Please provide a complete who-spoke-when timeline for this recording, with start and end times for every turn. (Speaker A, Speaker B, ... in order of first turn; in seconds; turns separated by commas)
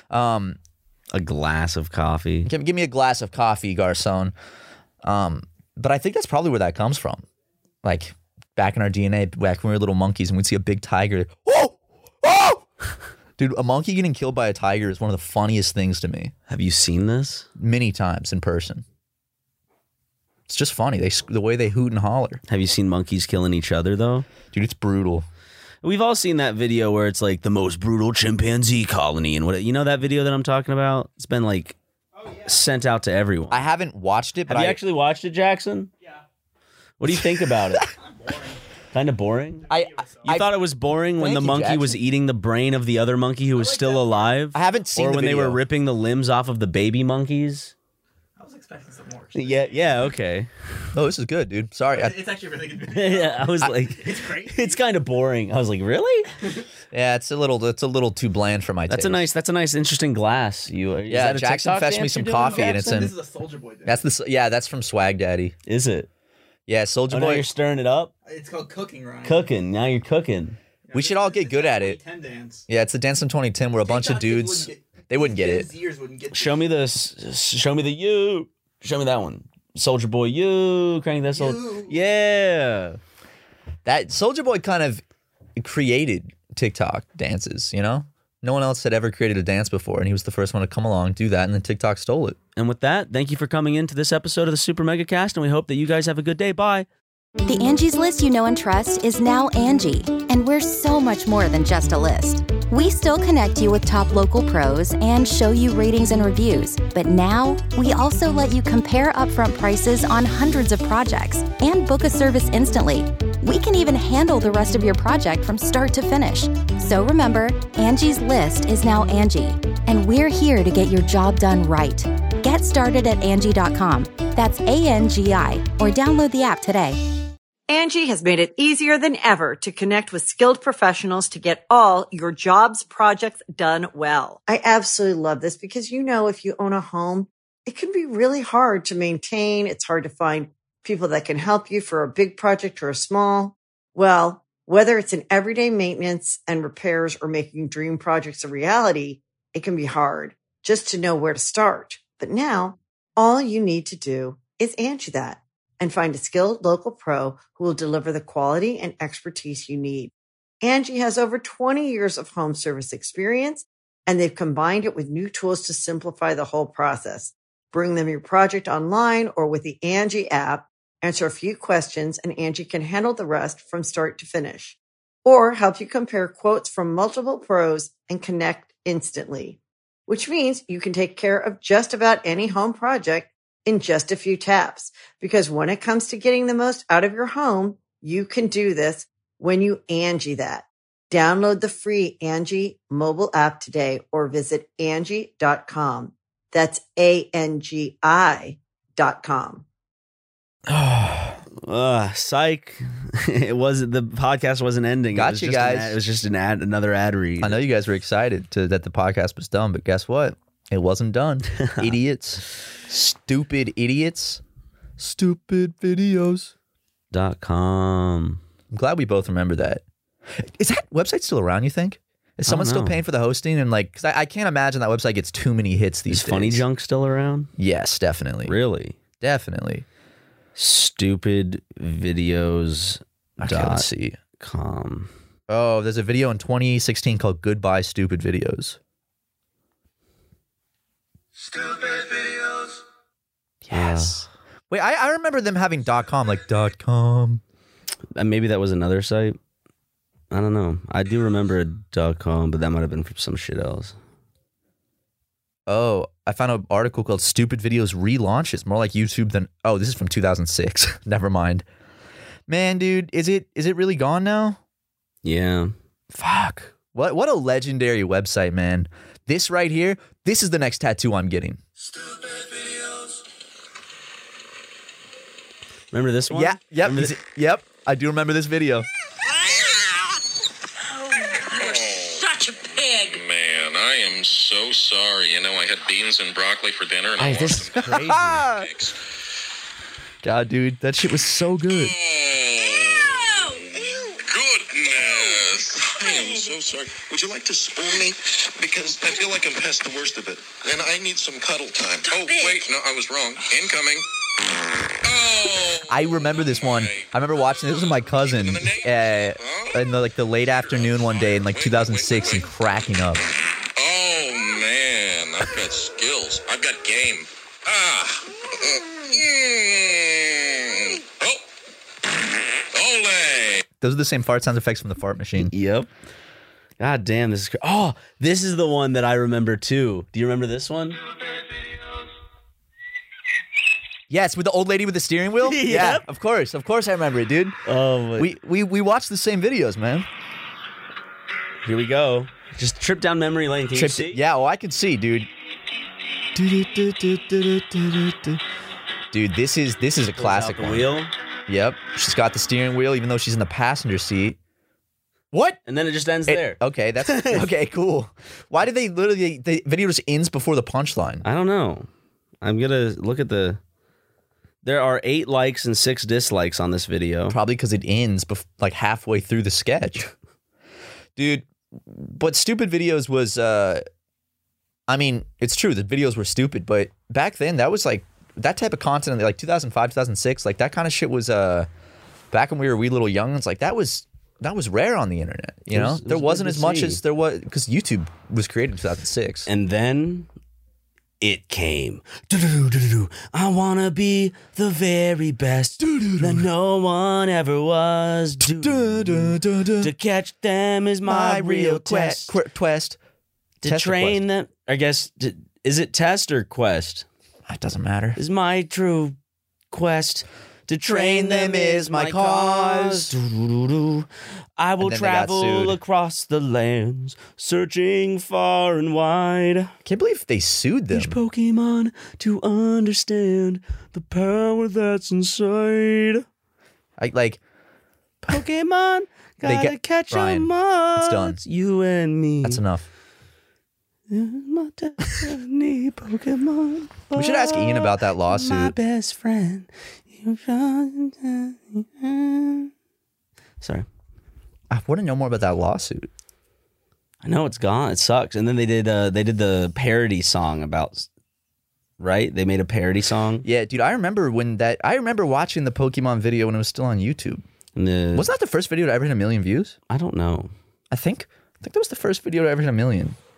Speaker A: 0.1-0.6, Speaker B: 1.1-2.5, Speaker A: 2.4-4.3, Speaker A: 5.0-7.2, Speaker A: 7.8-12.6, Speaker A: 13.4-16.3, Speaker B: 16.5-17.5, Speaker A: 17.6-18.8, Speaker A: 20.5-22.4, Speaker B: 22.5-24.3, Speaker A: 24.5-25.2, Speaker B: 25.8-31.8, Speaker C: 32.2-32.6, Speaker B: 32.4-33.6, Speaker A: 33.5-34.8, Speaker B: 34.5-35.9, Speaker B: 37.0-37.9, Speaker C: 37.8-38.6, Speaker B: 38.9-39.7, Speaker C: 39.6-40.3, Speaker A: 39.7-40.6, Speaker B: 40.2-47.7, Speaker A: 41.2-42.0, Speaker C: 43.5-44.5, Speaker A: 44.5-45.6, Speaker C: 48.4-50.1, Speaker B: 49.3-50.5, Speaker A: 50.9-52.1, Speaker C: 51.9-54.8, Speaker B: 52.9-56.3, Speaker A: 56.9-59.2, Speaker B: 58.9-63.1, Speaker A: 61.1-63.1, Speaker C: 62.4-64.0, Speaker A: 63.8-65.5, Speaker B: 65.7-66.1, Speaker A: 66.7-67.5, Speaker B: 67.1-68.1, Speaker C: 68.2-69.5, Speaker B: 69.2-70.6, Speaker C: 70.9-72.6, Speaker A: 70.9-72.0, Speaker A: 72.7-75.7, Speaker C: 73.8-76.8, Speaker B: 76.3-83.0, Speaker C: 81.3-82.0, Speaker A: 83.8-85.0, Speaker A: 85.6-92.4, Speaker B: 92.5-96.9, Speaker D: 97.4-127.0, Speaker E: 127.7-199.6, Speaker A: 200.7-201.4, Speaker B: 201.6-207.6, Speaker A: 205.1-206.0, Speaker A: 207.4-214.4, Speaker B: 211.6-211.9, Speaker A: 215.0-216.5, Speaker B: 217.1-218.4, Speaker A: 218.7-219.8, Speaker A: 220.4-226.6, Speaker B: 222.4-223.0, Speaker B: 226.1-227.5, Speaker A: 227.6-228.5, Speaker B: 228.4-229.0, Speaker A: 229.2-229.8, Speaker B: 230.6-233.8, Speaker A: 233.4-234.2, Speaker B: 234.4-235.1, Speaker A: 235.5-238.8, Speaker A: 243.6-247.4, Speaker B: 243.7-244.2, Speaker B: 248.2-249.4, Speaker B: 250.3-253.9, Speaker A: 255.7-261.6, Speaker A: 262.5-264.6, Speaker B: 265.2-265.7, Speaker A: 266.1-271.6, Speaker B: 275.9-277.1, Speaker A: 276.3-278.9, Speaker F: 281.3-289.0, Speaker B: 287.2-288.4, Speaker A: 287.7-288.7, Speaker A: 290.2-291.9, Speaker F: 291.7-304.1, Speaker F: 305.0-309.8, Speaker A: 305.9-313.3, Speaker F: 310.6-312.5, Speaker F: 313.8-321.4, Speaker F: 322.7-323.6, Speaker A: 323.8-325.5, Speaker B: 325.4-325.9, Speaker B: 326.8-331.0, Speaker A: 334.1-337.6, Speaker B: 335.4-336.0, Speaker B: 337.6-338.3, Speaker A: 338.2-340.1, Speaker B: 341.6-344.2, Speaker A: 343.7-345.3, Speaker A: 346.3-348.4, Speaker A: 349.1-350.9, Speaker B: 350.1-351.1, Speaker A: 351.5-354.4, Speaker A: 355.3-355.6, Speaker B: 355.6-357.5, Speaker A: 356.3-361.2, Speaker B: 361.2-361.9, Speaker B: 362.4-363.6, Speaker B: 364.6-367.4, Speaker A: 367.3-370.1, Speaker A: 371.1-373.8, Speaker A: 374.9-381.7, Speaker A: 382.3-389.5, Speaker B: 385.7-387.0, Speaker B: 389.4-390.3, Speaker B: 391.2-402.3, Speaker A: 395.8-396.5, Speaker A: 398.4-399.9, Speaker A: 401.0-403.0, Speaker B: 403.6-407.0, Speaker A: 403.6-404.2, Speaker A: 407.5-408.2, Speaker B: 408.1-409.1, Speaker B: 409.7-419.7, Speaker A: 410.8-413.1, Speaker A: 414.8-415.8, Speaker A: 419.8-421.2, Speaker B: 420.9-426.2, Speaker A: 427.0-427.4, Speaker B: 428.3-432.6, Speaker A: 429.4-431.4, Speaker A: 432.4-432.9, Speaker B: 434.1-442.7, Speaker A: 437.1-438.7, Speaker B: 443.6-443.9, Speaker A: 444.7-446.1, Speaker B: 447.2-451.1, Speaker B: 452.0-453.4, Speaker A: 453.4-457.4, Speaker B: 457.8-458.3, Speaker A: 458.1-459.8, Speaker B: 459.9-460.5, Speaker A: 460.9-463.2